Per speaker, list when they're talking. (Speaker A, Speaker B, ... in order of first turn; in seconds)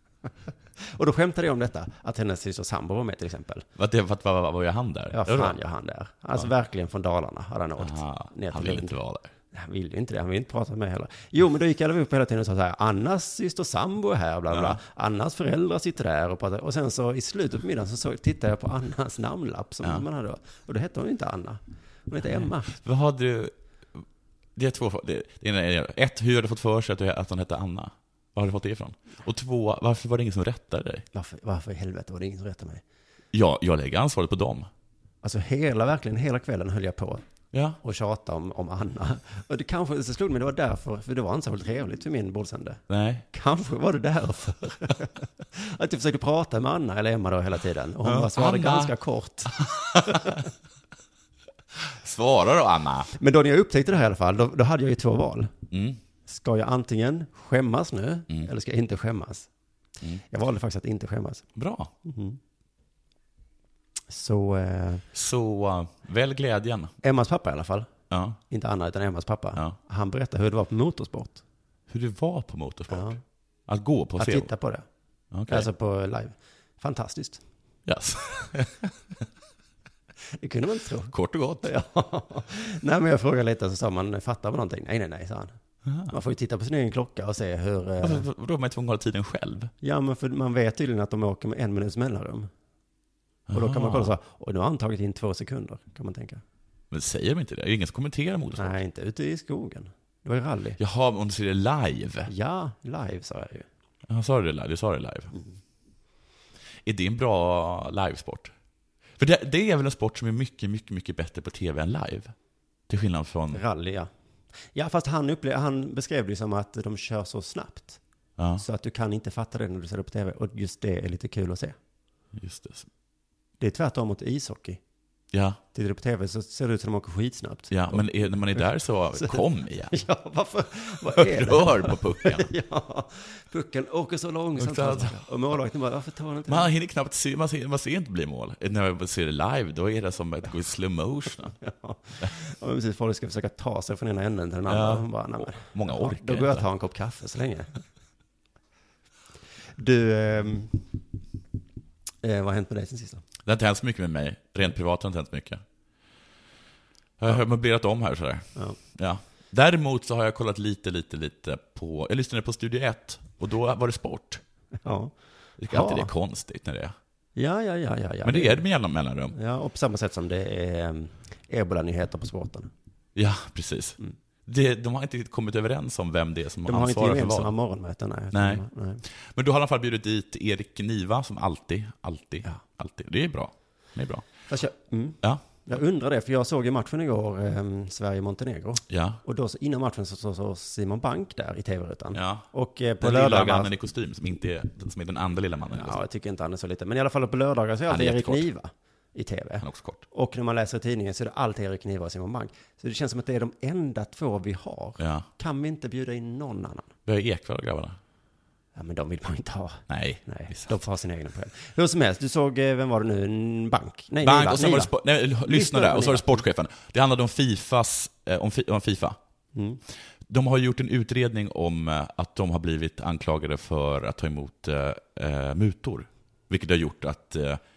Speaker A: 0.5-3.7, 5.1-9.0, 9.5-22.7, 31.1-32.8, 35.2-37.2, 37.8-50.5, 53.1-55.5, 56.3-59.5, 60.3-61.5, 62.0-62.4, 64.1-65.1, 67.0-67.9, 68.5-71.4, 72.9-73.2, 74.2-74.8, 75.5-77.4, 80.4-88.3, 89.8-92.5, 93.5-96.4, 98.5-100.8, 102.3-103.7, 113.5-114.1, 114.7-118.0, 118.6-121.8, 123.6-124.8, 125.7-136.7, 141.6-147.8, 149.8-150.9, 152.2-153.2, 164.8-165.2, 165.7-166.1, 167.4-168.7, 169.3-172.7, 176.7-179.0, 184.5-193.7, 195.7-206.9, 208.8-216.4, 219.5-219.8
Speaker B: 3.8-5.6, 7.8-9.3, 14.5-14.8, 22.2-24.0, 24.6-31.1, 33.3-34.7, 37.5-37.8, 42.9-43.2, 48.0-48.9, 49.5-50.5, 51.8-53.1, 55.7-56.0, 61.5-61.9, 65.1-66.9, 68.1-68.4, 71.9-73.2, 73.7-74.5, 75.3-75.7, 77.9-78.9, 81.1-81.7, 85.8-86.1, 88.0-89.7, 93.5-94.1, 96.9-98.8, 100.8-102.3, 104.1-105.3, 106.8-108.5, 109.2-112.3, 112.9-113.6, 118.4-118.6, 122.3-122.9, 125.3-125.6, 127.7-129.9, 131.1-132.5, 134.6-135.2, 136.5-141.6, 144.7-146.7, 153.4-155.6, 157.2-164.4, 165.6-166.9, 168.2-169.4, 173.2-177.5, 178.3-184.3, 188.9-189.2, 192.1-192.4, 193.0-196.0, 197.9-198.5, 199.6-200.0, 205.0-205.3, 207.1-208.0, 209.9-210.8, 214.2-219.2, 220.3-227.6